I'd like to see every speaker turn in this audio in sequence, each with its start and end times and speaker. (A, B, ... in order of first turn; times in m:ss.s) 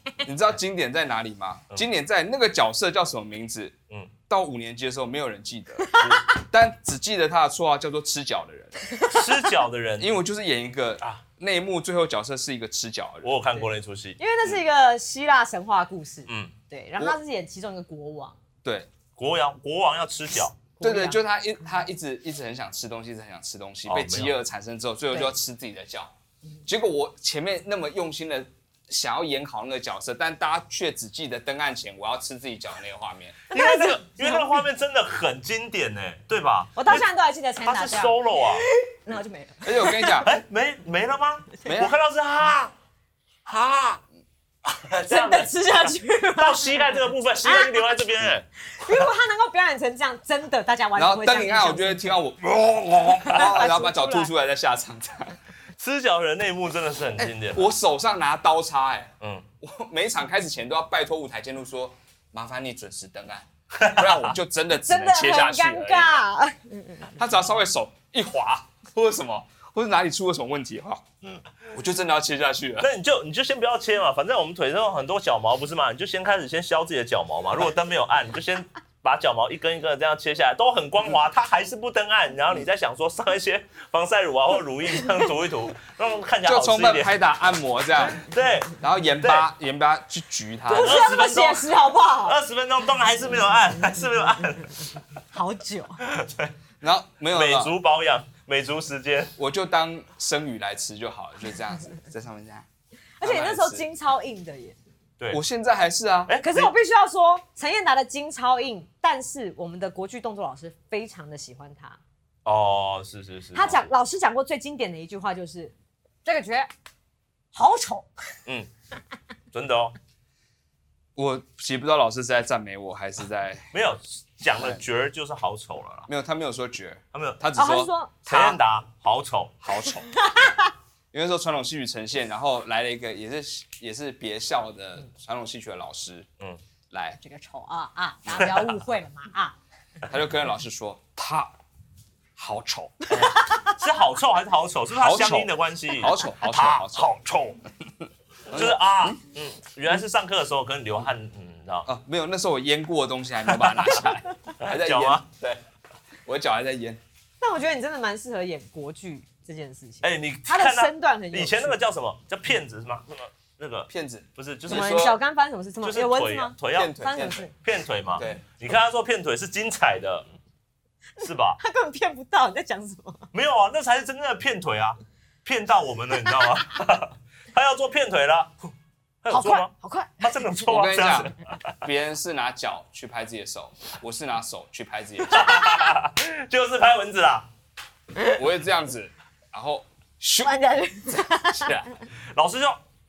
0:00.2-0:03.8 A
0:04.3-0:08.8 A
0:05.8-0:06.3 B
0:08.9-0:09.2 B
0:09.0-0:10.1 C
0:10.0-0:13.6 A
0:13.2-0:14.2 C
0:14.2-0:18.4 B
0:16.3-0:16.5 C
0:18.6-0:18.9 A
0:19.2-0:20.7 C
0:20.8-0:21.2 B
0:20.8-0:26.1 A
0:23.9-0:24.3 C
0:26.6-0:33.4 A
0:33.5-0:37.0 C
0:33.5-0:34.6 B
0:36.8-0:40.2 B
0:37.6-0:38.7 C
0:39.6-0:40.3 A
0:40.2-0:42.7 C
0:41.6-0:41.9 A
0:43.5-0:44.0 C
0:44.7-0:45.5 C
0:45.1-0:47.8 B
0:46.4-0:49.1 C
0:48.7-0:52.2 B
0:51.0-0:55.4 A
0:53.3-0:54.3 B
0:55.8-0:57.7 C
0:57.2-1:06.2 A
0:59.2-0:59.5 C
1:03.8-1:04.3 C
1:04.7-1:07.1 B
1:07.2-1:11.0 A
1:11.7-1:12.9 A
1:12.8-1:27.1 C
1:26.5-1:28.2 A
1:28.0-1:29.5 C
1:28.8-1:31.0 A
1:30.7-1:31.7 C
1:30.7-1:32.4 B
1:32.2-1:34.9 C
1:35.3-1:36.0 B
1:36.0-1:36.5 C
1:36.8-1:37.7 A
1:37.3-1:39.3 C
1:39.4-1:42.7 A
1:43.2-1:44.8 B
1:43.2-1:43.8 A
1:45.3-1:46.3 A
1:46.3-1:46.7 C
1:46.4-1:52.0 B
1:52.4-1:53.9 C
1:53.6-1:55.7 B
1:56.2-1:56.7 B
1:57.5-1:58.1 B
1:59.5-2:00.0 C
2:01.2-2:03.7 A
2:03.7-2:06.1 C
2:04.6-2:04.8 A
2:06.1-2:08.6 A
2:07.1-2:07.4 C
2:07.6-2:08.2 B
2:08.3-2:09.6 C
2:09.6-2:10.1 A
2:10.1-2:10.7 B
2:11.1-2:16.3 A
2:16.9-2:17.2 A
2:17.2-2:19.6 B
2:20.1-2:21.6 A
2:22.4-2:23.4 A
2:23.3-2:23.7 B
2:23.7-2:27.6 C
2:25.0-2:27.1 A
2:28.5-2:29.2 A
2:28.5-2:31.9 C
2:31.9-2:35.6 A
2:33.5-2:34.1 C
2:34.6-2:35.3 C
2:36.3-2:37.0 A
2:37.4-2:41.8 B
2:40.0-2:45.1 C
2:43.9-2:45.2 A
2:44.7-2:47.5 B
2:45.8-2:50.3 C
2:46.8-2:47.4 A
2:48.2-2:48.4 A
2:51.2-2:51.6 C
2:51.6-2:53.3 B
2:53.3-2:58.5 C
2:59.2-3:01.8 C
2:59.3-3:00.3 B
3:00.7-3:05.6 A
3:05.3-3:07.5 C
3:08.3-3:10.6 A
3:10.4-3:11.8 B
3:11.7-3:12.8 C